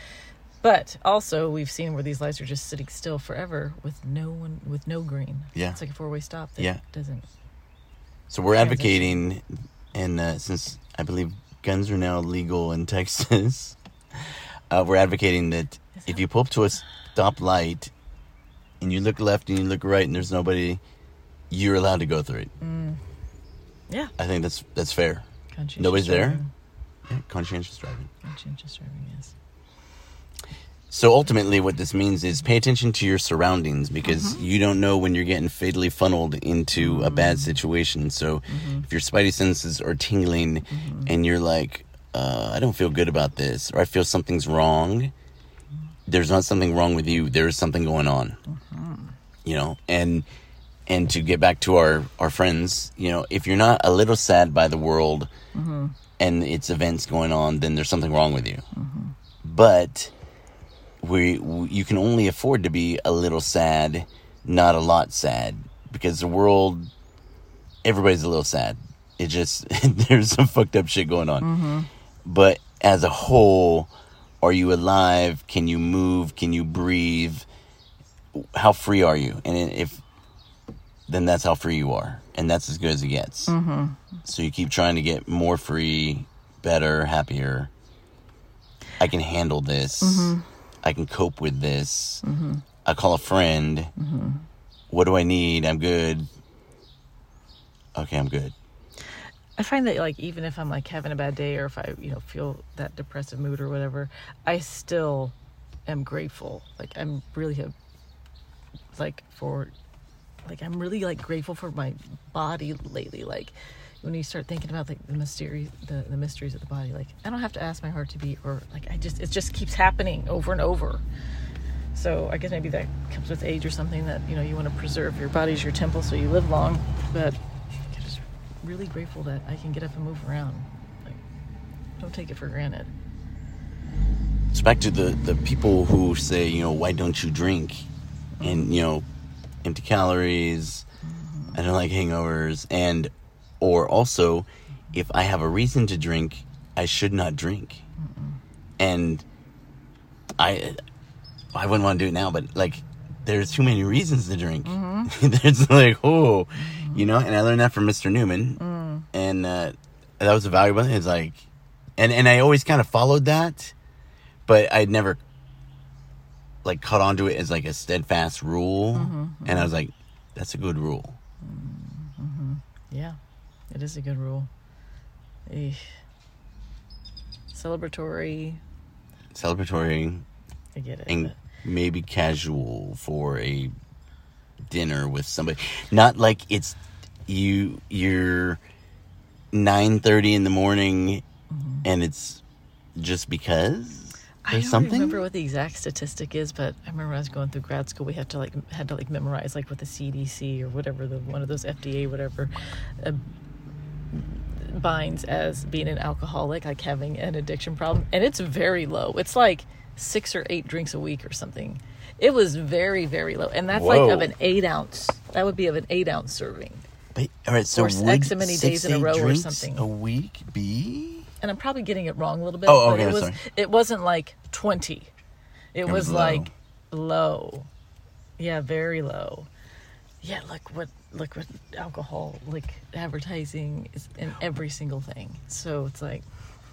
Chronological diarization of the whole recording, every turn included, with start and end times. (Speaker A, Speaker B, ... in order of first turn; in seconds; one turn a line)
Speaker A: 0.6-7.3
Speaker B: 8.3-13.8
Speaker A: 8.5-9.2
Speaker B: 14.7-17.9
Speaker A: 15.9-16.2
Speaker B: 18.8-20.8
Speaker B: 21.5-22.5
Speaker A: 22.6-23.0
Speaker B: 24.2-25.2
Speaker A: 25.5-26.5
Speaker B: 25.8-26.4
Speaker B: 27.1-28.1
Speaker A: 28.2-29.3
Speaker B: 30.9-45.1
Speaker A: 34.0-34.4
Speaker A: 36.7-37.5
Speaker A: 38.5-38.9
Speaker A: 40.7-41.1
Speaker B: 46.1-48.4
Speaker A: 48.5-49.1
Speaker B: 49.4-50.2
Speaker B: 50.9-55.3
Speaker A: 55.5-55.9
Speaker B: 56.2-58.6
Speaker A: 58.7-59.1
Speaker B: 59.4-60.1
Speaker B: 61.0-66.9
Speaker B: 67.8-71.5
Speaker A: 71.4-71.9
Speaker B: 72.2-73.9
Speaker B: 74.4-77.4
Speaker B: 78.3-80.0
Speaker B: 81.1-83.5
Speaker A: 83.5-84.0
Speaker B: 84.2-87.7
Speaker B: 89.0-92.2
Speaker A: 90.0-90.4
Speaker A: 92.2-92.6
Speaker B: 92.8-93.9
Speaker A: 94.0-94.4
Speaker B: 94.9-96.3
Speaker B: 97.9-98.5
Speaker A: 99.6-105.3
Speaker A: 105.9-107.7
Speaker A: 108.9-109.7
Speaker A: 110.4-121.0
Speaker A: 121.9-127.4
Speaker A: 127.9-131.2
Speaker A: 132.0-132.9
Speaker B: 134.5-137.9
Speaker A: 138.4-138.7
Speaker B: 138.4-139.0
Speaker B: 139.6-140.8
Speaker A: 141.2-141.6
Speaker B: 141.5-147.8
Speaker A: 148.0-148.4
Speaker B: 148.8-149.2
Speaker B: 150.4-150.8
Speaker B: 151.5-158.6
Speaker A: 154.6-155.1
Speaker A: 156.6-157.1
Speaker A: 158.6-159.1
Speaker B: 159.1-161.4
Speaker B: 162.0-163.7
Speaker B: 164.4-165.2
Speaker B: 166.6-171.2
Speaker A: 168.9-169.7
Speaker A: 171.4-173.2
Speaker A: 173.7-174.5
Speaker A: 175.5-175.9
Speaker A: 177.5-178.6
Speaker B: 179.3-180.2
Speaker A: 180.7-181.4
Speaker B: 181.1-183.7
Speaker B: 184.7-188.6
Speaker B: 189.5-191.2
Speaker A: 191.5-191.8
Speaker B: 191.8-192.4
Speaker B: 192.9-195.2
Speaker A: 194.4-203.2
Speaker A: 204.1-216.8
Speaker B: 213.7-214.3
Speaker B: 217.1-221.3
Speaker A: 217.7-219.8
Speaker A: 221.4-225.1
Speaker B: 222.7-223.4
Speaker A: 225.7-227.7
Speaker B: 225.8-226.5
Speaker A: 228.4-229.5
Speaker A: 230.2-236.2